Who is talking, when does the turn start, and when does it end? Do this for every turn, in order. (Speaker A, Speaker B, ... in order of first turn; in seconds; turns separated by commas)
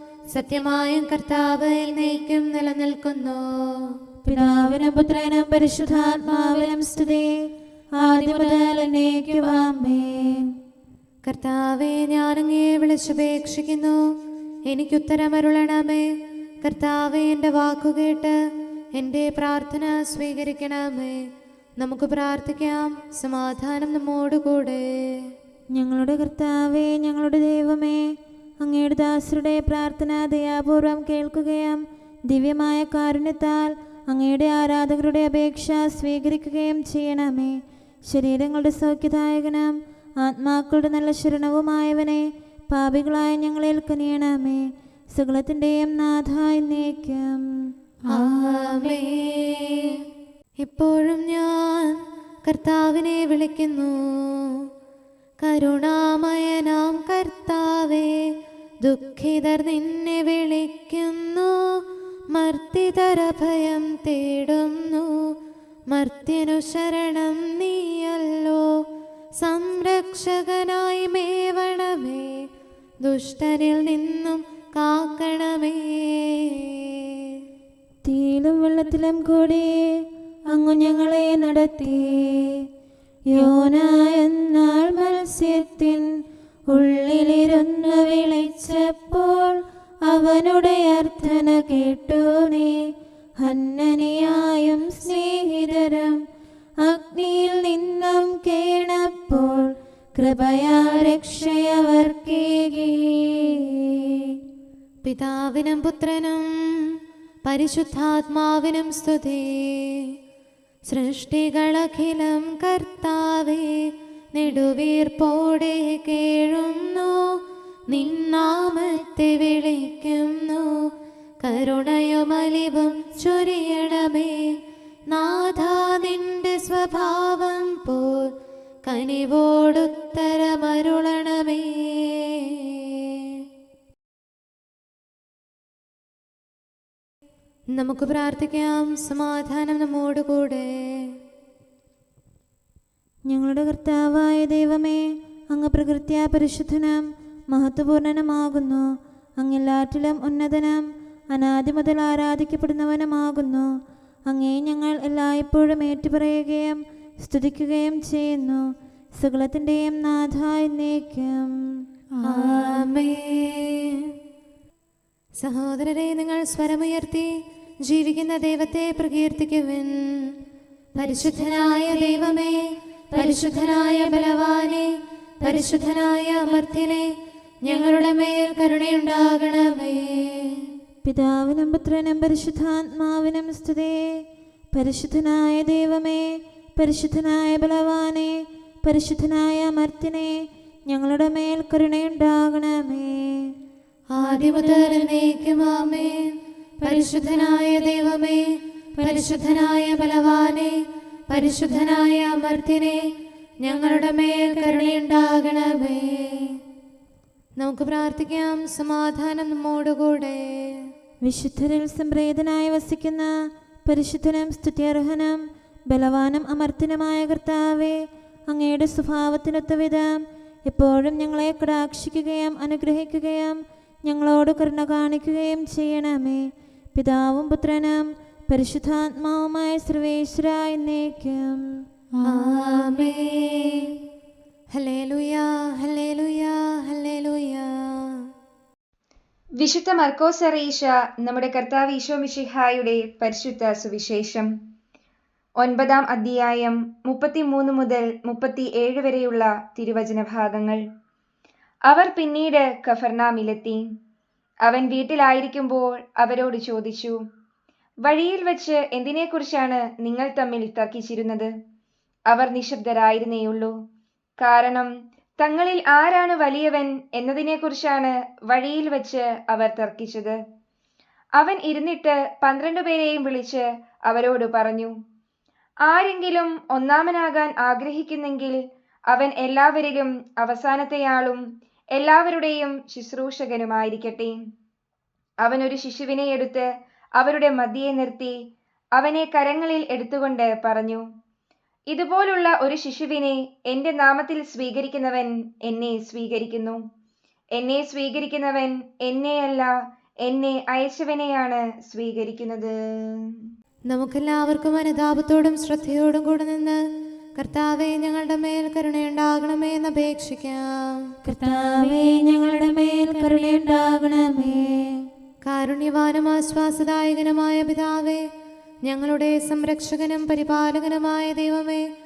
Speaker A: 0.3-4.0, Speaker B: 4.2-7.3, Speaker B: 8.0-10.5, Speaker A: 11.2-14.0, Speaker A: 14.7-16.1, Speaker A: 16.6-18.4, Speaker A: 18.9-21.2, Speaker A: 21.8-25.3, Speaker B: 25.7-28.0, Speaker B: 28.6-47.4, Speaker A: 48.1-50.0, Speaker A: 50.6-54.6, Speaker A: 55.4-58.2, Speaker A: 58.8-65.2, Speaker A: 65.9-68.7, Speaker A: 69.4-72.5, Speaker A: 73.0-77.4, Speaker B: 78.0-79.8, Speaker B: 80.5-82.6, Speaker B: 83.3-86.1, Speaker B: 86.7-92.8, Speaker B: 93.4-96.2, Speaker B: 96.8-104.3, Speaker A: 105.0-106.9, Speaker A: 107.5-110.1, Speaker A: 110.9-120.9, Speaker A: 121.4-128.3, Speaker A: 128.8-133.4, Speaker A: 137.7-141.2, Speaker B: 143.3-148.9, Speaker B: 149.4-153.7, Speaker B: 154.3-158.7, Speaker B: 159.2-161.5, Speaker A: 162.2-164.1, Speaker A: 165.4-167.3, Speaker A: 167.8-170.3, Speaker A: 170.9-177.1, Speaker A: 177.6-180.7, Speaker B: 181.0-184.1, Speaker B: 184.7-190.3, Speaker B: 190.9-193.5, Speaker A: 194.1-196.3, Speaker A: 196.8-198.4, Speaker A: 199.0-200.7, Speaker A: 201.3-203.1, Speaker A: 203.6-206.6, Speaker A: 207.6-210.9, Speaker B: 211.2-213.3, Speaker B: 213.8-231.6, Speaker A: 232.2-234.0, Speaker A: 234.7-238.2, Speaker C: 239.6-244.5, Speaker C: 245.6-250.8, Speaker C: 251.9-253.9, Speaker C: 254.6-257.2, Speaker C: 258.0-261.5, Speaker C: 262.3-263.8, Speaker C: 264.4-270.4, Speaker C: 271.4-274.9, Speaker C: 275.9-281.4, Speaker C: 281.9-284.4, Speaker C: 285.4-288.4, Speaker C: 288.9-291.0, Speaker C: 291.9-296.8, Speaker C: 297.5-303.4, Speaker A: 303.9-306.8, Speaker A: 307.4-311.1, Speaker B: 311.2-315.0, Speaker A: 315.4-318.2, Speaker A: 318.8-321.8